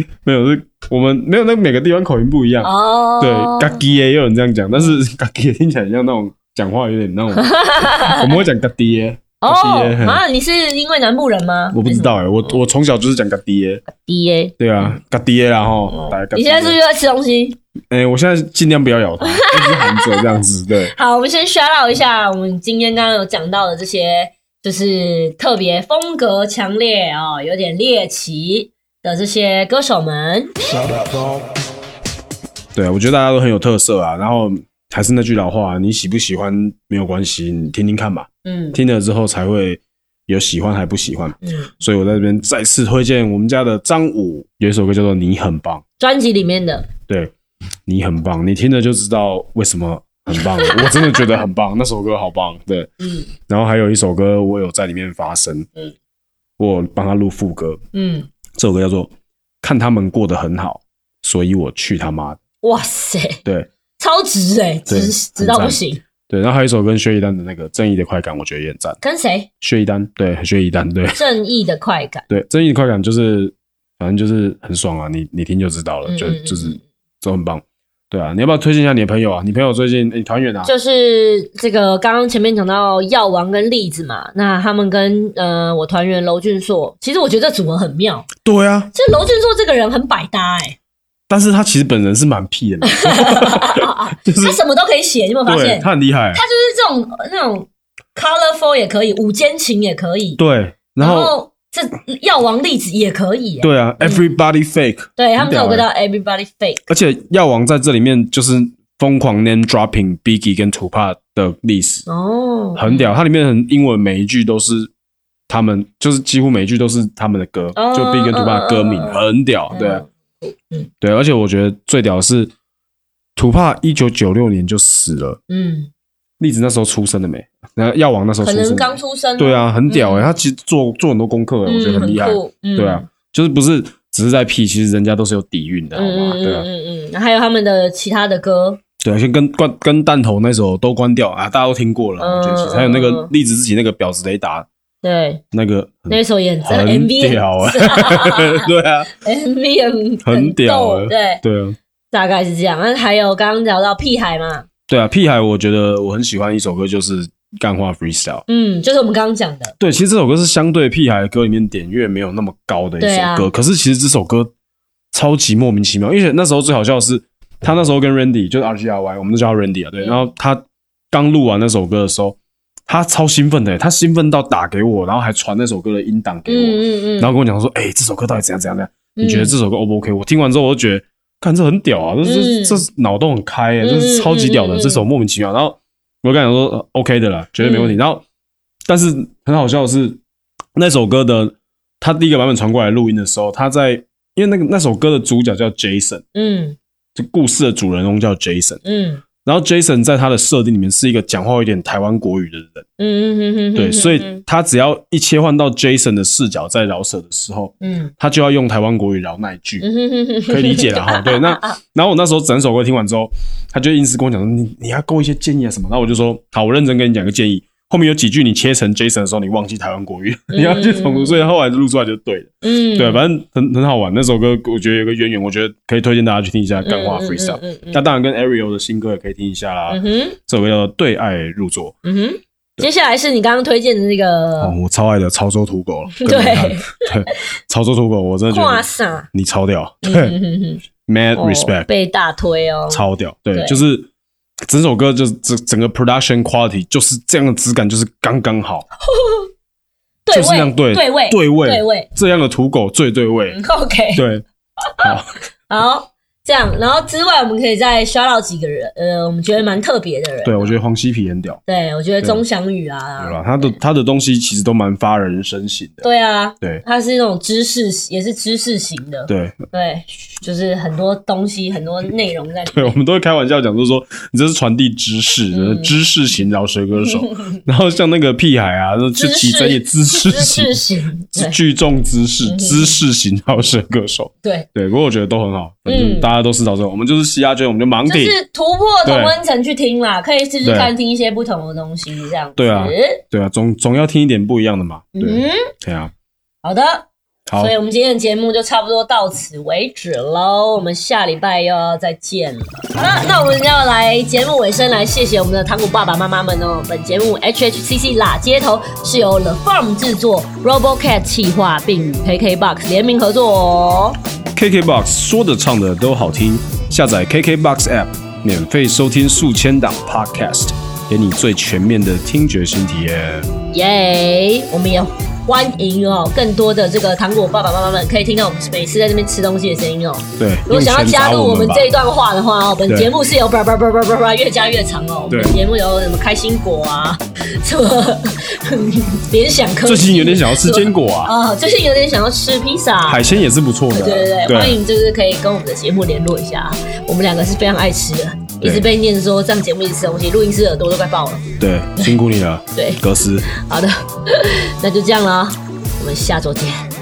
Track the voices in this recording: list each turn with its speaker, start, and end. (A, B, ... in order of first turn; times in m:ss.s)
0:00.2-0:10.2 A
0:02.6-0:03.8 B
0:07.4-0:08.4 B
0:09.4-0:12.5 B
0:11.7-0:13.8 A
0:13.9-0:14.9 B
0:14.6-0:16.8 A
0:15.9-0:17.6 B
0:17.9-0:20.9 A
0:19.2-0:20.2 B
0:20.9-0:30.5 B
0:32.7-0:45.8 A
0:38.4-0:38.8 B
0:41.4-0:41.7 B
0:46.0-0:46.9 B
0:47.1-0:47.3 A
0:47.8-0:52.9 A
0:50.6-0:50.9 B
0:53.0-0:53.3 B
0:53.5-0:55.7 A
0:56.6-0:57.8 A
0:57.9-0:58.3 B
0:58.5-0:59.1 A
0:59.6-1:02.4 A
1:02.6-1:03.4 B
1:04.0-1:06.0 B
1:04.9-1:09.0 A
1:09.0-1:09.5 B
1:09.6-1:11.2 A
1:11.1-1:12.3 B
1:12.3-1:20.7 A
1:16.0-1:16.8 B
1:20.6-1:28.3 B
1:28.4-1:28.9 A
1:28.9-1:30.8 B
1:31.3-1:34.6 A
1:32.8-1:40.4 B
1:35.4-1:36.4 A
1:40.4-1:41.3 A
1:41.0-1:44.3 B
1:43.6-1:45.8 A
1:45.2-1:46.9 B
1:46.9-1:52.1 A
1:52.1-1:53.2 B
1:52.8-1:54.9 A
1:55.5-2:00.0 A
1:57.8-2:00.9 B
2:01.0-2:02.5 A
2:03.4-2:05.4 A
2:05.5-2:05.9 B
2:06.4-2:16.7 A
2:08.4-2:10.4 B
2:11.6-2:13.1 B
2:15.9-2:18.8 B
2:19.0-2:24.7 A
2:22.2-2:23.3 B
2:25.0-2:25.4 B
2:25.5-2:29.1 A
2:26.1-2:31.4 B
2:30.2-2:31.8 A
2:32.1-2:34.6 B
2:34.9-2:38.4 A
2:38.5-2:39.8 B
2:39.8-2:44.5 A
2:43.0-2:43.5 B
2:45.1-3:08.2 A
2:56.5-2:57.3 B
2:59.2-2:59.5 B
3:02.2-3:02.8 B
3:03.8-3:05.0 B
3:07.6-3:08.0 B
3:08.9-3:10.2 A
3:10.8-3:16.2 A
3:16.3-3:16.8 B
3:17.1-3:18.8 A
3:18.8-3:19.2 B
3:19.4-3:22.8 A
3:23.0-3:24.4 B
3:23.8-3:29.8 A
3:27.8-3:28.1 B
3:29.8-3:31.8 B
3:30.5-3:52.0 A
3:40.5-3:41.4 B
3:42.6-3:43.2 B
3:46.8-3:48.0 B
3:49.9-3:50.4 B
3:52.0-3:54.7 B
3:54.6-4:00.4 A
3:56.2-3:57.3 B
3:58.5-3:59.3 B
4:00.0-4:00.8 B
4:01.0-4:01.9 A
4:01.4-4:03.8 B
4:02.9-4:04.1 A
4:04.7-4:08.9 A
4:09.1-4:09.5 B
4:10.2-4:12.1 B
4:10.3-4:13.6 A
4:13.5-4:14.2 B
4:14.1-4:14.4 A
4:15.0-4:15.3 A
4:15.7-4:20.7 B
4:20.4-4:21.6 A
4:21.7-4:23.8 B
4:23.2-4:26.0 A
4:26.0-4:33.0 B
4:29.3-4:29.6 A
4:32.7-4:40.8 A
4:35.5-4:35.9 B
4:37.2-4:37.6 B
4:39.2-4:41.6 B
4:41.3-4:48.4 A
4:42.4-4:43.0 B
4:44.4-4:44.7 B
4:45.8-4:46.3 B
4:48.0-4:53.2 B
4:49.0-4:49.4 A
4:50.6-4:50.9 A
4:52.6-4:56.1 A
4:55.1-4:55.6 B
4:56.6-4:57.1 B
4:57.5-4:57.7 A
4:57.6-5:14.2 B
5:14.5-5:23.5 A
5:23.7-5:51.4 B
5:30.4-5:31.9 A
5:35.3-5:35.6 A
5:39.8-5:41.3 A
5:43.0-5:44.8 A
5:48.6-5:48.9 A
5:51.6-5:53.5 A
5:52.7-5:56.8 B